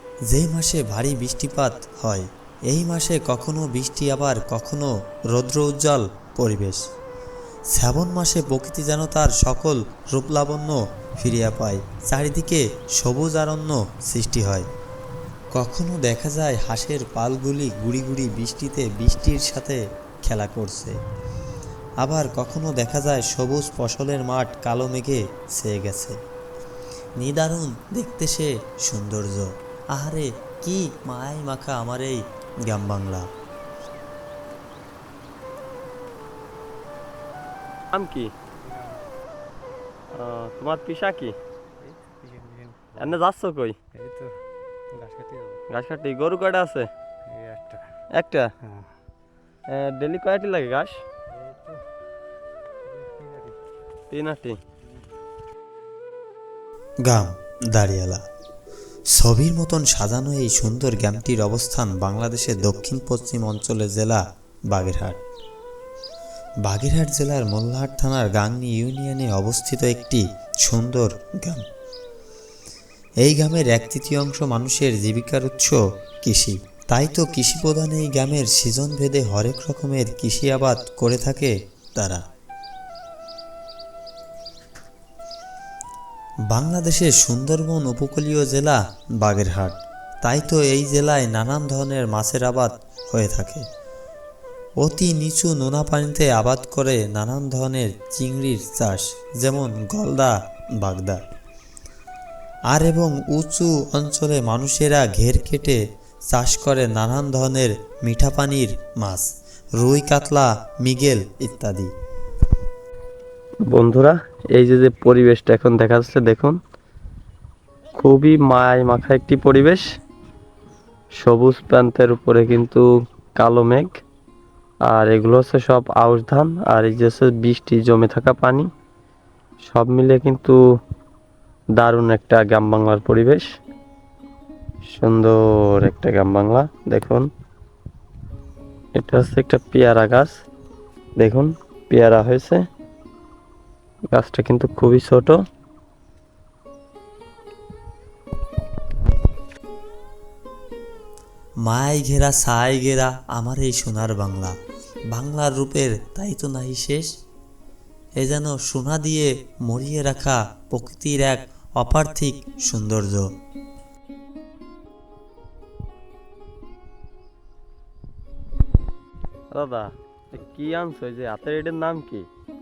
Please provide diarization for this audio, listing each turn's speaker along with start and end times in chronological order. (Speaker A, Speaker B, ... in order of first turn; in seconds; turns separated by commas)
Speaker A: 0.3-6.8, Speaker A: 7.7-14.7, Speaker A: 15.5-20.9, Speaker A: 22.0-26.1, Speaker A: 27.2-33.3, Speaker B: 37.9-38.3, Speaker C: 38.6-39.0, Speaker B: 40.1-41.3, Speaker C: 41.8-43.2, Speaker B: 43.0-43.8, Speaker C: 43.9-44.3, Speaker C: 45.0-45.6, Speaker B: 45.7-46.9, Speaker C: 47.3-47.8, Speaker B: 48.2-48.5, Speaker B: 49.7-50.9, Speaker C: 51.3-51.8, Speaker C: 52.9-53.5, Speaker B: 54.1-54.6, Speaker A: 57.1-58.2, Speaker A: 59.1-65.2, Speaker A: 66.7-71.6, Speaker A: 73.2-82.2, Speaker A: 86.5-93.6, Speaker A: 94.8-101.2, Speaker A: 102.7-111.9, Speaker B: 113.7-116.6, Speaker B: 117.9-119.8, Speaker B: 121.2-122.9, Speaker B: 123.4-123.9, Speaker B: 124.9-128.7, Speaker B: 129.7-130.6, Speaker B: 131.8-133.4, Speaker B: 134.9-137.3, Speaker B: 138.9-140.3, Speaker B: 141.2-142.6, Speaker B: 144.1-145.4, Speaker A: 151.6-154.6, Speaker A: 155.1-157.1, Speaker A: 158.2-163.3, Speaker B: 169.5-172.3